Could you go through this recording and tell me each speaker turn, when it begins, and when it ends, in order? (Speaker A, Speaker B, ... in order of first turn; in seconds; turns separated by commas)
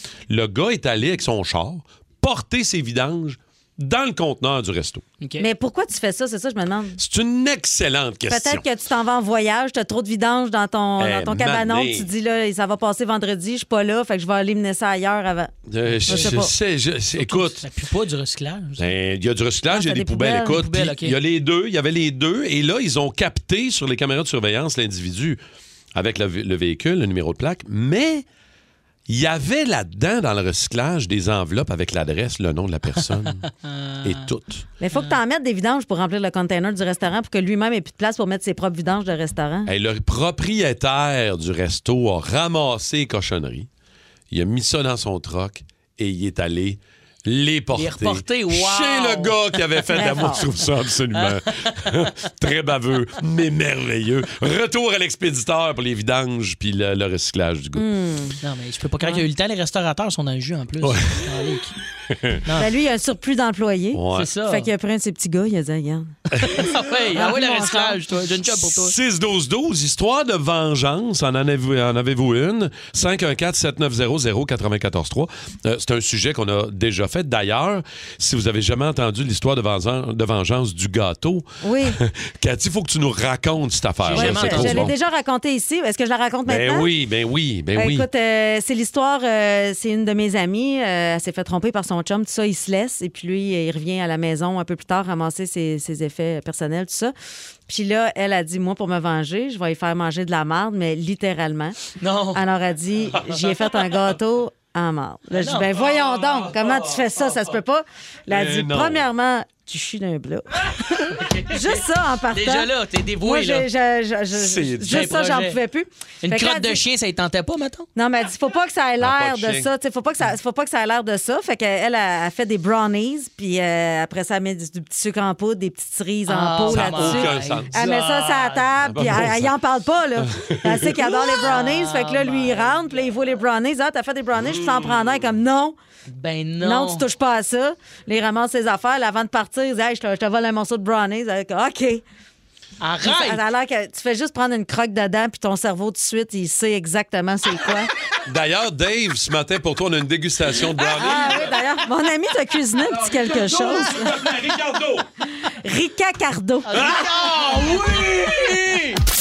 Speaker A: 0.3-5.0, Speaker B: 5.2-5.5, Speaker C: 5.4-7.0, Speaker A: 7.0-8.6, Speaker C: 8.3-15.5, Speaker A: 11.0-12.1, Speaker A: 15.7-17.6, Speaker C: 16.1-16.5, Speaker B: 16.1-16.4, Speaker B: 17.1-18.9, Speaker A: 18.8-25.4, Speaker C: 19.7-20.6, Speaker B: 20.4-21.2, Speaker A: 25.9-28.2, Speaker A: 29.1-33.5, Speaker B: 33.7-34.1, Speaker A: 34.0-34.6, Speaker C: 34.8-39.7, Speaker A: 39.6-43.7, Speaker A: 44.3-57.9, Speaker B: 47.8-50.2, Speaker C: 49.9-50.4, Speaker B: 51.1-52.1, Speaker C: 57.8-58.4, Speaker B: 58.4-61.8, Speaker A: 60.8-61.3, Speaker A: 62.1-62.4, Speaker C: 62.5-66.1, Speaker A: 63.9-64.3, Speaker B: 64.1-64.7, Speaker A: 66.4-66.7, Speaker B: 66.5-68.9, Speaker C: 67.1-68.0, Speaker A: 68.5-84.9, Speaker C: 81.6-82.0, Speaker B: 84.0-84.9, Speaker C: 84.1-86.9, Speaker A: 86.5-88.1, Speaker C: 87.7-97.1, Speaker C: 97.7-101.8, Speaker B: 102.0-102.4, Speaker C: 102.3-112.7, Speaker B: 105.3-105.7, Speaker A: 105.8-107.4, Speaker A: 108.3-109.0, Speaker B: 111.2-113.7, Speaker C: 113.2-116.8, Speaker A: 114.3-115.1, Speaker B: 114.8-115.6, Speaker B: 116.2-117.9, Speaker C: 118.0-135.8, Speaker A: 119.0-119.7, Speaker B: 126.3-128.6, Speaker A: 126.7-128.1, Speaker A: 128.8-129.5, Speaker A: 130.2-131.3, Speaker B: 131.3-132.8, Speaker A: 134.4-135.3, Speaker B: 136.1-137.0, Speaker C: 136.6-142.0, Speaker B: 142.8-143.4, Speaker C: 143.0-147.9, Speaker A: 148.2-151.5, Speaker C: 150.8-154.1, Speaker A: 152.9-155.1, Speaker C: 155.5-156.9, Speaker B: 156.7-158.9